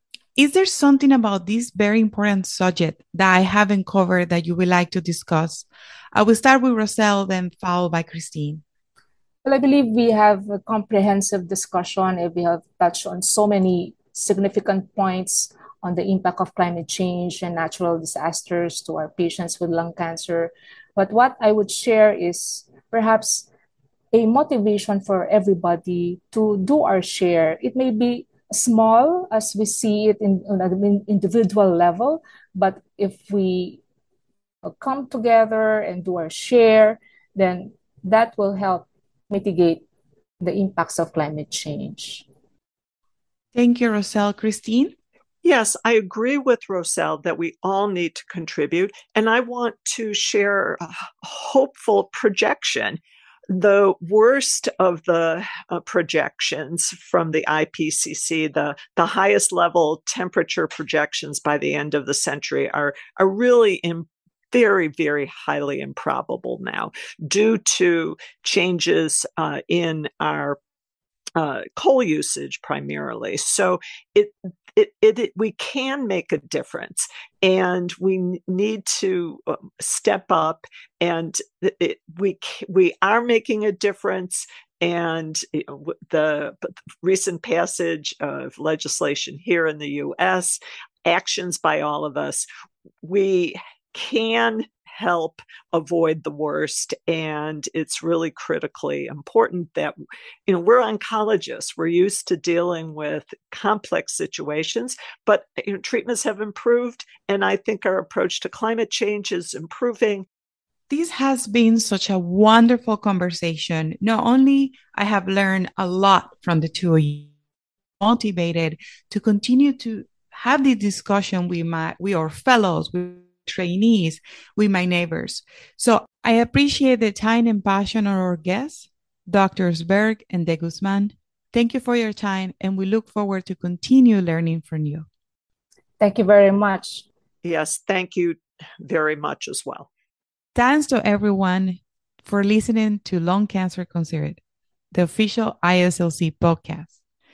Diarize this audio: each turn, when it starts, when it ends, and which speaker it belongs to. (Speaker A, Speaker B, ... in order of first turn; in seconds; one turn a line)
Speaker A: 0.3-8.6
Speaker B: 9.4-23.5
Speaker B: 24.1-33.8
Speaker B: 34.6-39.8
Speaker B: 40.4-42.2
Speaker A: 43.5-44.9
Speaker C: 45.4-53.0
Speaker C: 53.5-70.6
Speaker C: 71.3-92.4
Speaker C: 93.0-110.3
Speaker A: 110.9-117.3
Speaker A: 118.0-135.1
Speaker B: 136.0-137.1
Speaker C: 137.4-139.9
Speaker A: 140.5-144.4
Speaker A: 144.9-146.9